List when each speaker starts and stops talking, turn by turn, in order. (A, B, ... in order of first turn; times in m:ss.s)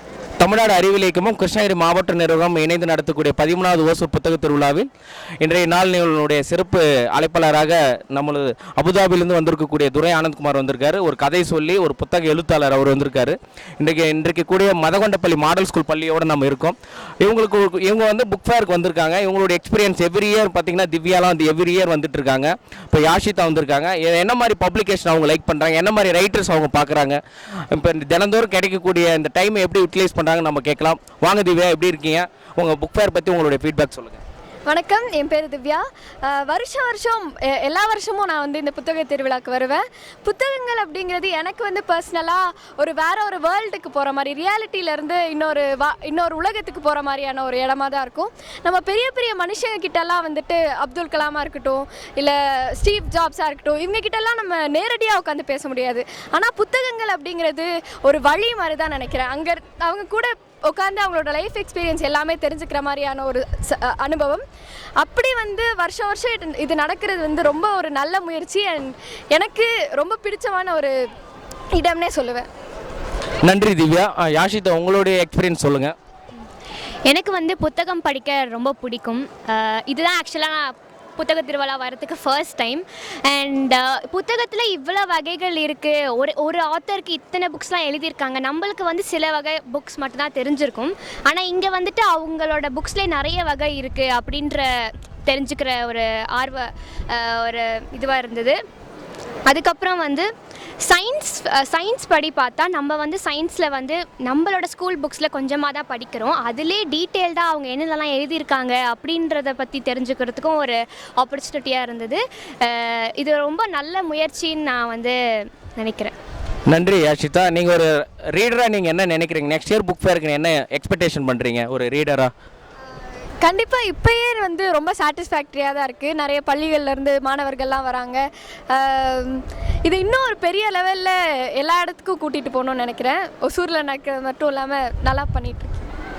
0:00.4-0:04.9 A
0:05.4-0:27.2 A
0:27.7-0:34.2 A
0:34.7-1:04.4 B
1:05.0-1:10.9 B
1:11.7-1:12.5 B
1:13.4-1:15.9 A
1:17.1-1:38.6 C
1:39.5-1:40.3 C
1:40.8-1:56.1 C
1:56.7-2:02.3 A
2:03.4-2:15.9 B